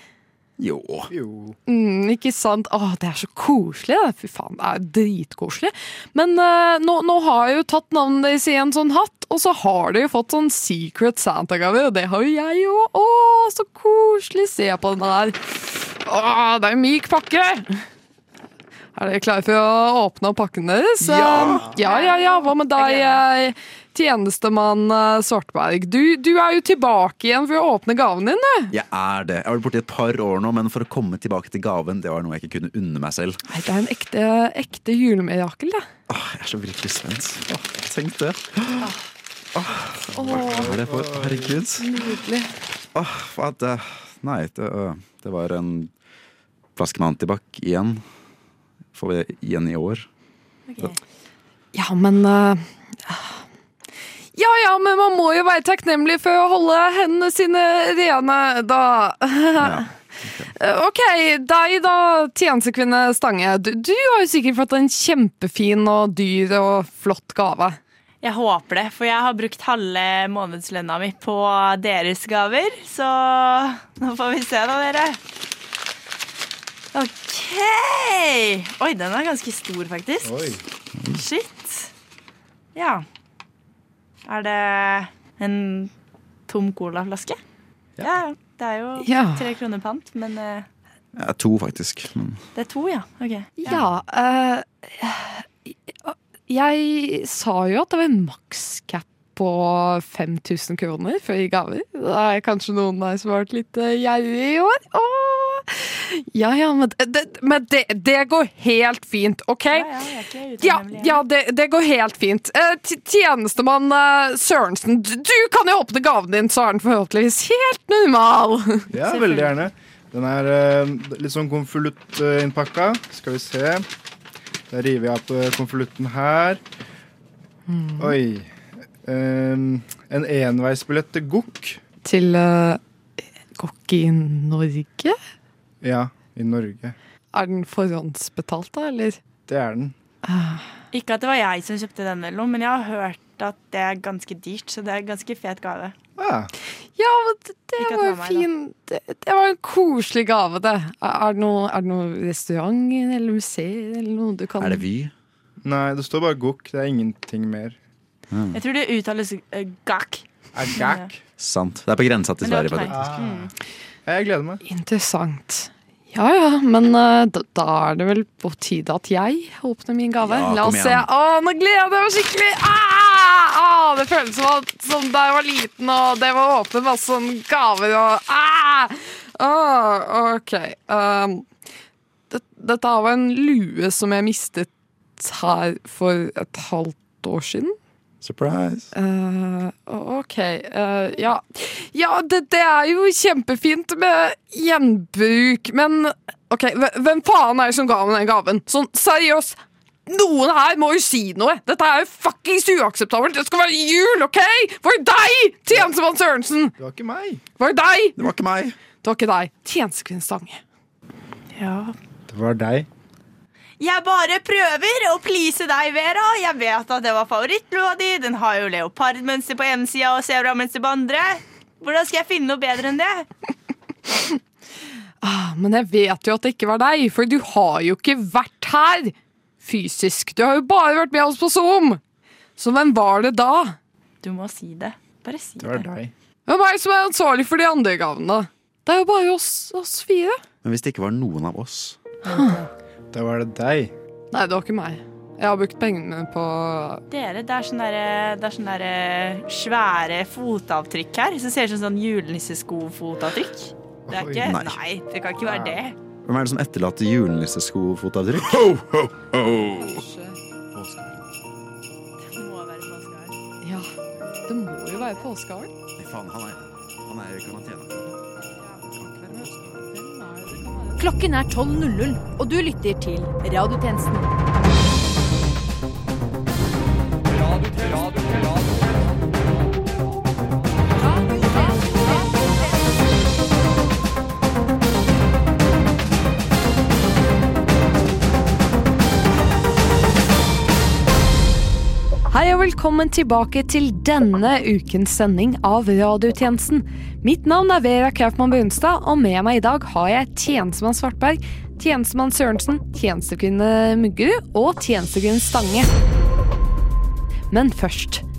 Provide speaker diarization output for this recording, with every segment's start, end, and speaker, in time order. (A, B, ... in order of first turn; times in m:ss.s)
0:00.6-0:01.1 A
0:01.1-0:01.6 B
0:01.7-0:17.8 C
0:19.0-0:28.7 C
0:21.0-0:21.7 A
0:21.8-0:23.2 D
0:28.7-0:33.4 A
0:33.5-0:35.9 C
0:36.1-0:38.9 A
0:39.6-0:41.9 A
0:40.1-0:40.8 C
0:40.3-0:41.6 B
0:41.8-0:42.5 C
0:42.9-0:45.9 A
0:46.8-0:48.0 A
0:48.9-0:50.1 A
0:50.7-0:51.0 D
0:51.7-0:53.4 C
0:54.4-0:59.9 C
0:59.6-1:00.5 A
1:00.6-1:07.8 C
1:08.2-1:15.2 D
1:16.9-1:20.5 D
1:20.2-1:20.6 B
1:21.0-1:21.2 A
1:21.1-1:21.9 D
1:22.8-1:23.0 D
1:24.3-1:25.9 D
1:26.5-1:27.4 D
1:28.0-1:30.7 D
1:29.0-1:29.5 C
1:31.2-1:32.4 A
1:32.6-1:33.6 D
1:33.6-1:49.9 C
1:49.7-1:51.2 D
1:50.6-1:58.9 C
1:58.9-2:03.9 B
1:59.0-1:59.5 D
2:04.7-2:06.6 B
2:07.7-2:08.2 C
2:08.0-2:08.5 B
2:09.0-2:11.8 B
2:12.0-2:12.8 C
2:13.6-2:15.2 C
2:15.8-2:17.0 B
2:17.3-2:19.2 C
2:19.5-2:20.0 B
2:20.2-2:20.7 C
2:20.9-2:26.0 D
2:26.2-2:26.5 B
2:27.0-2:34.8 C
2:27.8-2:28.5 D
2:34.6-2:35.1 A
2:35.6-2:37.8 B
2:38.3-2:38.6 A
2:38.5-2:41.1 D
2:40.5-2:41.2 B
2:41.4-2:43.1 A
2:42.4-2:43.5 D
2:42.9-2:43.5 B
2:44.1-2:44.6 B
2:44.6-3:01.5 C
2:50.2-2:51.1 A
3:02.3-3:07.8 C
3:08.2-3:08.9 A
3:08.9-3:26.8 C
3:26.8-3:27.4 B
3:27.6-3:28.2 C
3:28.2-3:28.8 A
3:29.0-3:30.6 C
3:31.6-3:32.0 D
3:32.3-3:32.9 B
3:33.8-3:43.3 D
3:45.2-3:52.0 C
3:52.6-3:53.8 C
3:54.2-3:55.9 D
3:55.6-3:56.1 B
3:56.5-4:00.4 C
4:00.6-4:02.0 A
4:02.3-4:02.6 D
4:02.3-4:02.6 C
4:03.1-4:03.9 B
4:04.3-4:07.0 C
4:07.1-4:16.0 D
4:14.1-4:14.5 B
4:14.4-4:14.8 A
4:15.4-4:15.8 B
4:16.2-4:20.0 A
4:19.6-4:20.4 C
4:20.7-4:21.3 A
4:22.2-4:23.4 D
4:23.6-4:23.9 C
4:24.5-4:25.7 C
4:26.0-4:28.3 A
4:28.8-4:30.0 A
4:29.9-4:31.0 C
4:31.0-4:34.4 E
4:52.3-5:05.9 C
5:07.5-5:08.2 C